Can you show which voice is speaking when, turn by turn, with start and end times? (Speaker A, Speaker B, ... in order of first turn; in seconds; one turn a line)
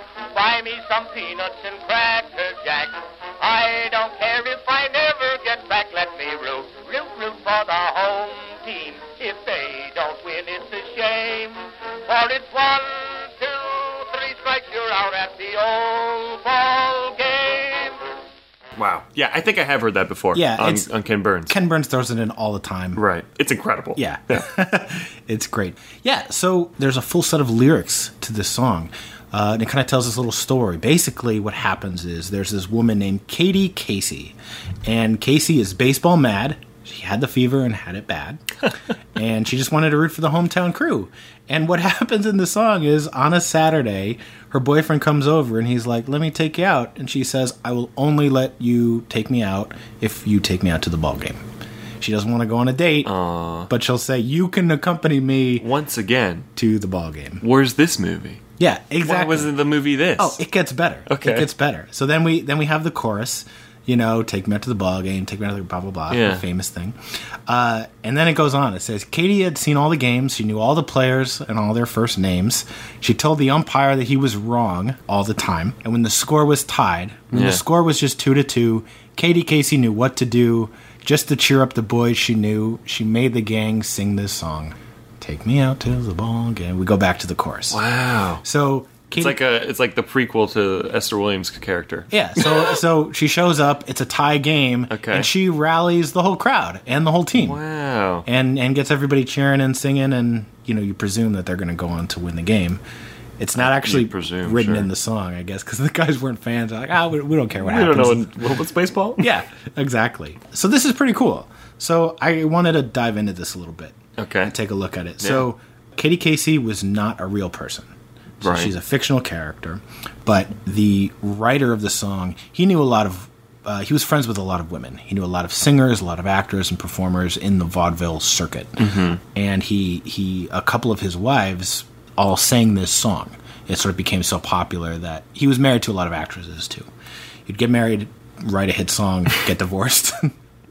Speaker A: 0.3-18.0
Speaker B: 18.8-21.6
Speaker C: 20.3-20.9
Speaker C: 21.5-23.0
Speaker B: 23.0-24.5
Speaker C: 24.0-38.4
Speaker C: 39.1-51.4
Speaker C: 52.0-53.1
Speaker B: 53.0-53.7
Speaker C: 53.7-55.7
Speaker B: 55.6-56.5
Speaker C: 56.6-57.4
Speaker B: 57.4-58.4
Speaker C: 58.6-59.5
Speaker B: 59.0-60.4
Speaker C: 60.2-87.8
Speaker B: 61.1-61.5
Speaker B: 66.1-66.5
Speaker B: 77.3-77.6
Speaker B: 87.7-88.4
Speaker C: 88.4-89.4
Speaker B: 89.2-92.8
Speaker C: 92.1-97.6
Speaker B: 94.9-95.3
Speaker B: 97.3-98.3
Speaker C: 98.3-102.8
Speaker C: 103.4-108.3
Speaker B: 103.6-104.9
Speaker B: 107.6-109.3
Speaker C: 109.2-136.9
Speaker B: 114.2-114.5
Speaker B: 115.2-115.5
Speaker B: 118.4-118.7
Speaker B: 128.8-129.2
Speaker C: 137.5-140.3